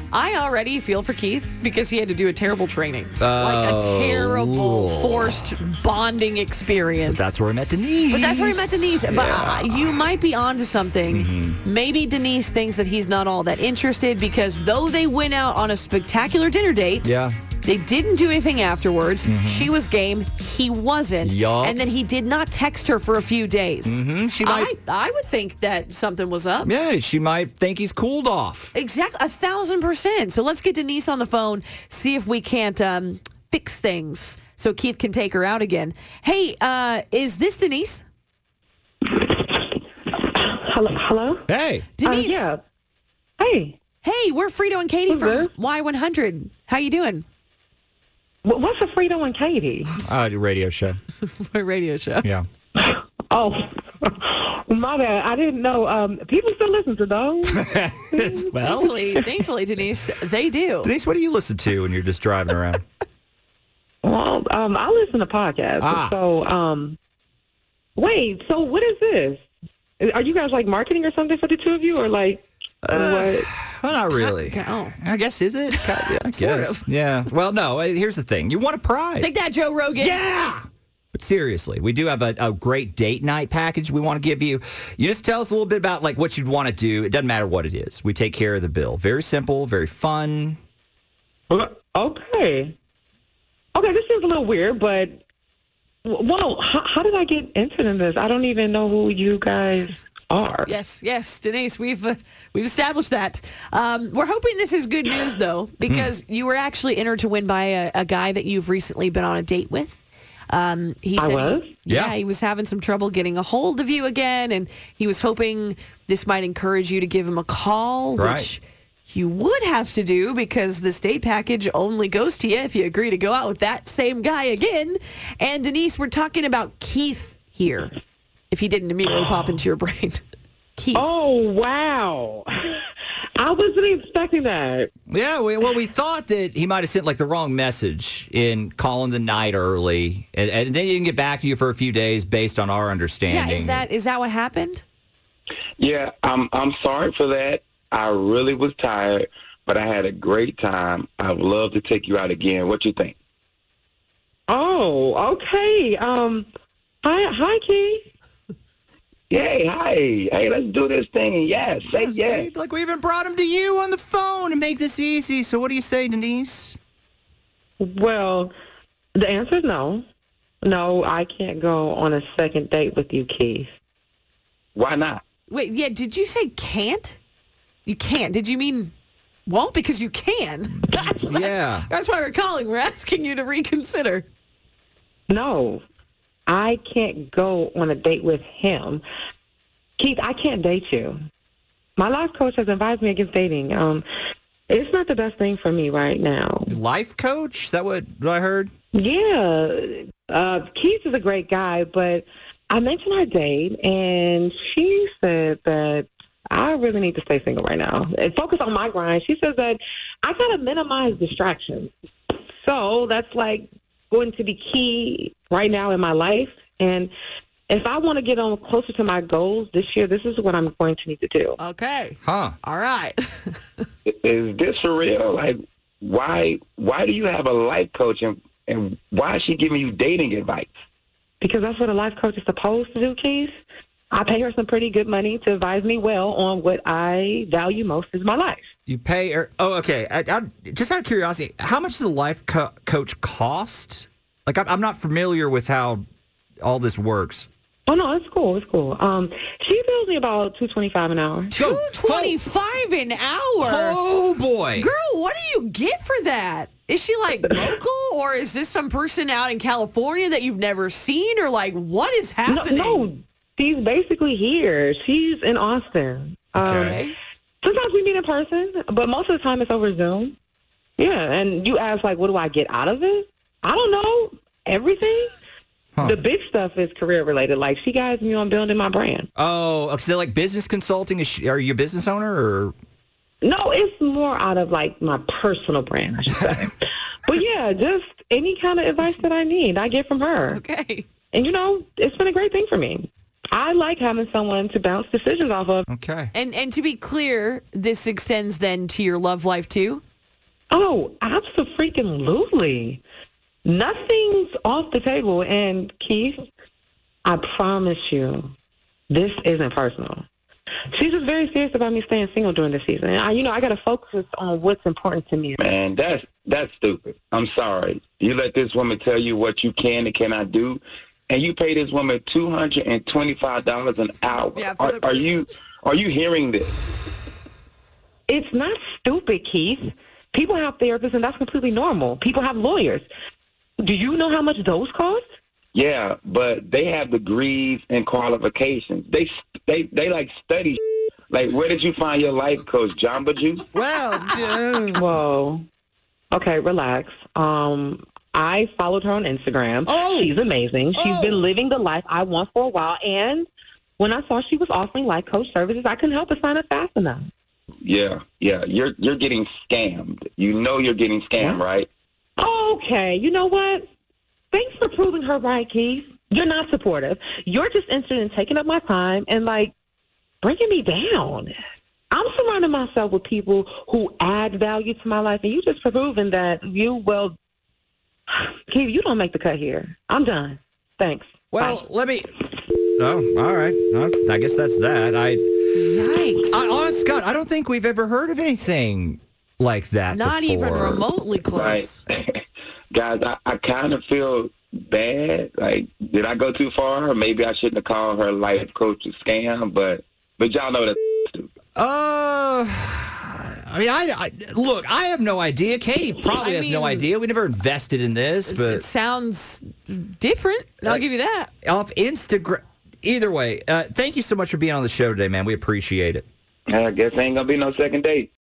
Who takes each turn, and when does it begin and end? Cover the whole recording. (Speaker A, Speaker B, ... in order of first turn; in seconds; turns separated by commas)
Speaker A: 0.1-7.3, Speaker B: 3.2-5.5, Speaker B: 7.0-10.1, Speaker A: 8.1-26.7, Speaker B: 11.1-11.6, Speaker B: 17.0-17.4, Speaker B: 19.2-19.7, Speaker B: 21.2-21.8, Speaker B: 23.8-24.7, Speaker B: 26.6-28.7, Speaker A: 28.7-38.0, Speaker C: 40.4-41.5, Speaker B: 41.5-41.9, Speaker A: 42.0-42.5, Speaker C: 42.0-42.6, Speaker C: 43.4-43.8, Speaker A: 44.0-47.2, Speaker C: 45.1-45.5, Speaker C: 48.4-50.0, Speaker B: 50.0-51.0, Speaker A: 51.3-52.3, Speaker C: 52.8-57.6, Speaker B: 57.4-59.0, Speaker A: 58.6-60.9, Speaker B: 60.8-62.8, Speaker C: 64.0-67.0, Speaker B: 65.8-66.1, Speaker C: 68.0-69.4, Speaker C: 70.0-73.5, Speaker B: 72.8-79.3, Speaker A: 74.1-75.0, Speaker A: 75.7-76.9, Speaker A: 79.2-80.2, Speaker B: 80.0-90.6, Speaker C: 91.5-92.8, Speaker C: 93.7-95.2, Speaker C: 96.0-100.8, Speaker A: 100.7-128.0, Speaker B: 105.8-106.1, Speaker C: 111.2-111.7, Speaker B: 111.9-112.1, Speaker B: 118.2-118.5, Speaker A: 128.5-130.2, Speaker A: 130.8-131.1, Speaker C: 130.9-132.8, Speaker C: 133.4-134.9, Speaker B: 135.1-143.8, Speaker A: 143.3-144.8, Speaker D: 145.8-153.1, Speaker C: 154.5-156.5, Speaker C: 157.0-158.1, Speaker D: 159.3-162.5, Speaker B: 161.9-166.8, Speaker C: 167.8-168.5, Speaker C: 169.1-170.1, Speaker C: 170.6-173.7, Speaker D: 174.8-175.2, Speaker A: 175.5-177.2, Speaker A: 177.9-178.9, Speaker A: 179.5-184.3, Speaker B: 181.2-181.9, Speaker C: 185.3-185.8, Speaker C: 186.5-189.0, Speaker C: 190.0-191.2, Speaker C: 192.0-194.0, Speaker C: 194.7-196.8, Speaker B: 196.7-198.7, Speaker C: 198.9-211.9, Speaker C: 212.6-217.1, Speaker C: 217.7-221.6, Speaker A: 221.6-223.6, Speaker B: 222.2-222.6, Speaker D: 224.1-230.7, Speaker C: 231.4-233.5, Speaker C: 234.1-238.6, Speaker B: 238.9-246.0, Speaker B: 246.6-247.5, Speaker C: 247.9-251.5, Speaker B: 251.5-252.4, Speaker A: 251.5-254.0, Speaker B: 253.6-254.9, Speaker A: 254.8-263.1, Speaker C: 262.5-266.9, Speaker B: 266.5-267.0, Speaker A: 266.6-267.1, Speaker C: 267.6-270.4, Speaker C: 271.0-275.3, Speaker B: 275.9-276.2, Speaker C: 276.0-279.3, Speaker B: 279.4-282.7, Speaker C: 283.4-286.7, Speaker C: 287.3-290.6, Speaker A: 290.5-291.1, Speaker C: 291.3-295.9, Speaker B: 295.9-296.3, Speaker A: 296.3-300.0, Speaker C: 300.7-303.0, Speaker C: 303.6-306.4, Speaker C: 307.2-308.5, Speaker C: 309.1-310.2, Speaker C: 310.9-315.6, Speaker D: 315.6-326.7, Speaker A: 324.5-325.5, Speaker C: 328.3-333.1, Speaker C: 333.8-335.2, Speaker D: 335.7-343.7, Speaker B: 343.7-345.0, Speaker C: 345.0-345.6, Speaker C: 346.3-357.3, Speaker B: 349.9-350.3, Speaker B: 350.9-351.5, Speaker D: 357.8-361.9, Speaker C: 362.4-363.9, Speaker C: 364.5-369.7, Speaker C: 370.4-371.5, Speaker C: 372.1-377.4, Speaker C: 378.3-381.8, Speaker B: 381.5-385.5, Speaker A: 385.8-386.6, Speaker B: 386.5-391.1, Speaker A: 390.1-392.0, Speaker D: 391.5-401.5, Speaker B: 401.8-408.8, Speaker A: 406.2-407.1, Speaker A: 408.5-411.5, Speaker B: 411.6-416.2, Speaker D: 416.7-418.3